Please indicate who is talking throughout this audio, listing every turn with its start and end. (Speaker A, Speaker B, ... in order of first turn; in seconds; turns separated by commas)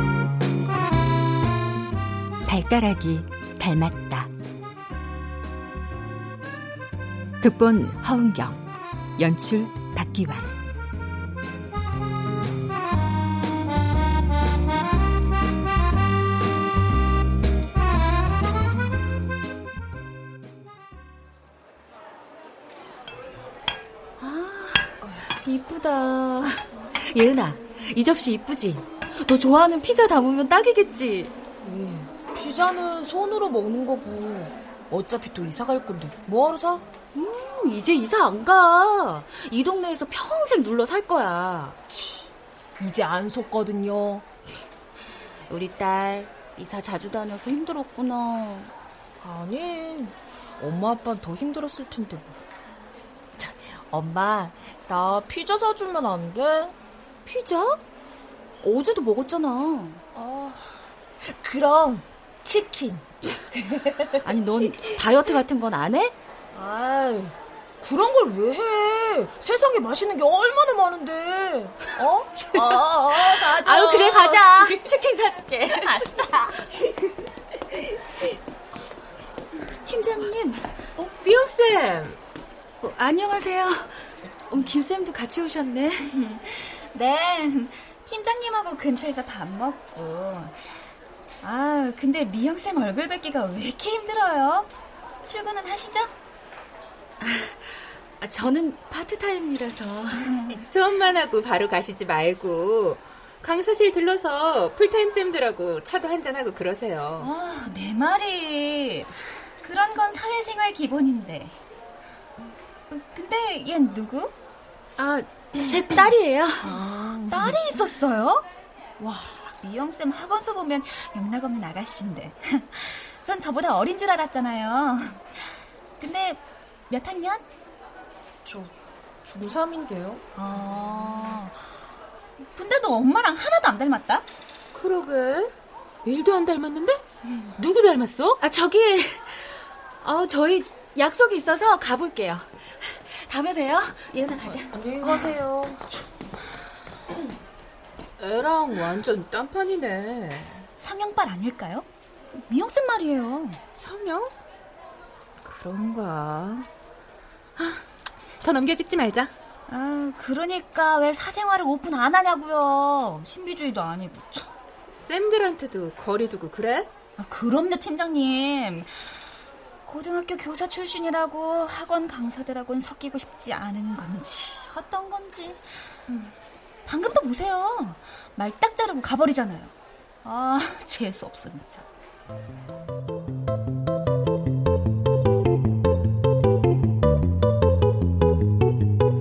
Speaker A: 2.5-4.3, Speaker A: 7.4-8.6, Speaker A: 9.2-10.5, Speaker B: 24.2-31.3, Speaker C: 31.6-36.9, Speaker B: 37.1-41.8, Speaker C: 41.9-44.3, Speaker B: 45.5-48.7, Speaker C: 49.2-52.4, Speaker C: 53.4-56.8, Speaker C: 57.3-57.8, Speaker B: 58.6-60.0, Speaker C: 60.1-63.0, Speaker C: 63.6-64.1, Speaker B: 64.2-66.2, Speaker C: 66.5-74.4, Speaker B: 73.4-76.0, Speaker D: 73.7-74.5, Speaker D: 75.3-76.3, Speaker B: 79.8-80.7, Speaker E: 81.0-82.2, Speaker B: 82.8-86.1, Speaker D: 86.1-90.7, Speaker D: 91.4-94.7, Speaker D: 95.2-96.2, Speaker B: 97.2-100.3, Speaker D: 100.2-100.6, Speaker E: 100.5-107.3, Speaker D: 107.2-111.6, Speaker D: 112.9-114.3, Speaker B: 115.0-116.7, Speaker C: 116.6-117.6, Speaker D: 117.3-118.5, Speaker C: 119.0-119.4, Speaker D: 119.6-125.5, Speaker D: 126.0-127.5, Speaker C: 128.4-130.2, Speaker D: 130.4-131.6, Speaker D: 132.5-134.3, Speaker E: 134.7-135.5, Speaker E: 136.1-137.0, Speaker E: 137.6-138.4, Speaker B: 138.4-144.7, Speaker C: 144.7-145.8, Speaker E: 148.2-150.7, Speaker D: 150.8-153.6, Speaker E: 153.7-154.3, Speaker E: 155.4-156.7, Speaker E: 157.6-157.8, Speaker E: 158.4-159.3, Speaker D: 159.7-164.5, Speaker E: 164.9-166.9, Speaker D: 167.2-169.2, Speaker D: 169.9-176.3, Speaker D: 176.9-181.9